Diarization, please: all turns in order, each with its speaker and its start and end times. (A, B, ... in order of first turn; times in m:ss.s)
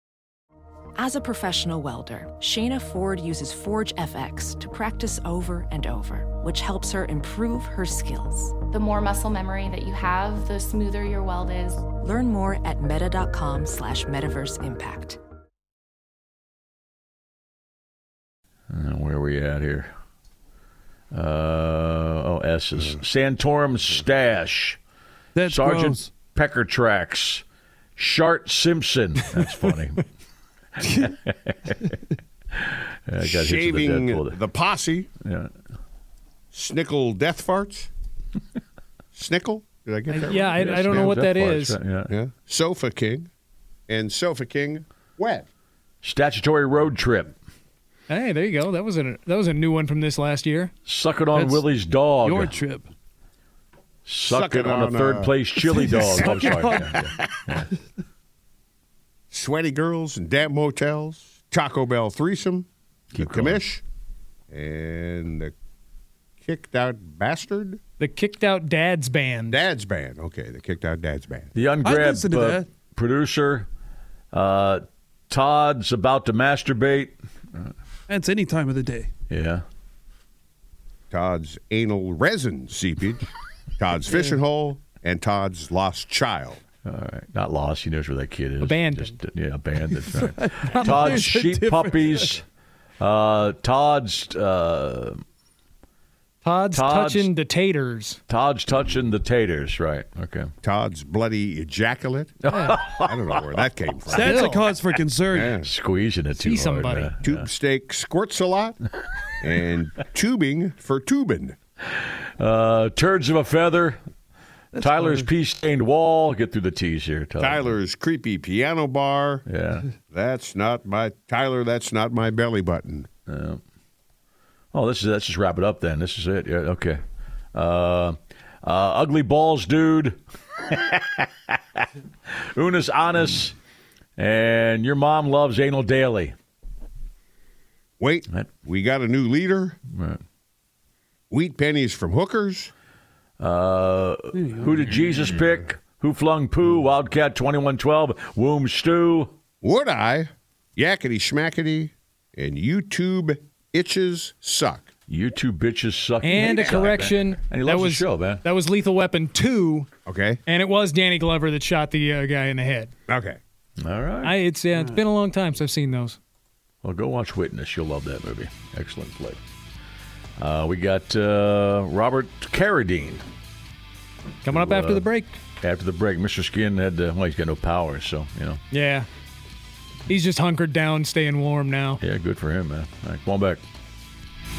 0:01.0-0:08.6 A
0:08.8-0:11.8 B
0:11.9-0:15.2 A
0:18.7-0:19.9 C
0:21.1-0:24.8 C
0:25.3-0:26.1 D
0:25.4-0:27.4 C
0:28.0-0:30.0 C
0:30.8-0:31.9 C
0:32.6-0:34.4 C
0:33.2-0:35.1 E
0:35.2-0:35.5 C
0:36.5-0:37.9 E
0:39.1-0:41.0 E
0:40.1-0:41.8 F
0:40.4-0:42.1 C
0:42.1-0:43.3 E
0:43.9-0:45.4 E
0:46.0-0:47.3 C
0:48.1-0:50.7 F
0:50.8-0:52.6 C
0:51.3-0:51.6 D
0:52.2-0:52.9 D
0:54.0-0:57.7 C
0:54.3-0:57.1 E
0:55.6-0:57.0 D
0:59.3-1:03.8 E
1:03.1-1:03.6 C
1:04.5-1:05.5 E
1:06.4-1:07.8 E
1:08.0-1:09.6 F
1:09.5-1:11.5 E
1:11.5-1:13.7 C
1:11.8-1:12.7 D
1:14.3-1:17.7 C
1:18.1-1:19.1 D
1:19.3-1:19.6 C
1:21.1-1:23.3 E
1:23.8-1:26.6 E
1:26.8-1:32.4 C
1:28.6-1:29.1 F
1:29.9-1:32.3 D
1:33.0-1:35.2 C
1:36.4-1:38.2 F
1:36.7-1:37.3 C
1:38.3-1:40.5 C
1:40.6-1:44.6 E
1:42.4-1:43.4 C
1:42.5-1:42.8 F
1:44.1-1:45.6 D
1:44.2-1:44.7 F
1:45.3-1:45.7 E
1:45.6-1:47.5 C
1:46.4-1:47.1 F
1:47.2-1:48.8 E
1:49.4-1:51.6 E
1:52.4-1:54.0 C
1:54.8-1:55.3 D
1:54.8-1:57.7 C
1:57.4-1:59.4 E
1:59.4-1:59.8 C
2:00.1-2:03.1 E
2:03.3-2:03.6 C
2:04.7-2:07.0 C
2:07.5-2:11.8 C
2:12.5-2:13.5 C
2:14.2-2:16.3 C
2:18.0-2:19.8 E
2:19.9-2:20.2 C
2:21.3-2:22.7 E
2:23.4-2:29.3 C
2:24.4-2:24.9 D
2:29.6-2:34.8 E
2:35.1-2:38.4 C
2:36.2-2:39.9 F
2:40.0-2:40.4 E
2:40.4-2:42.9 F
2:43.1-2:43.4 E
2:43.8-2:44.3 C
2:44.2-2:46.2 F
2:46.8-2:49.4 C
2:50.4-2:53.2 C
2:54.4-2:55.0 C
2:54.4-2:55.3 F
2:55.6-2:58.6 C
2:58.7-2:59.1 F
3:00.1-3:02.0 F
3:02.0-3:03.6 C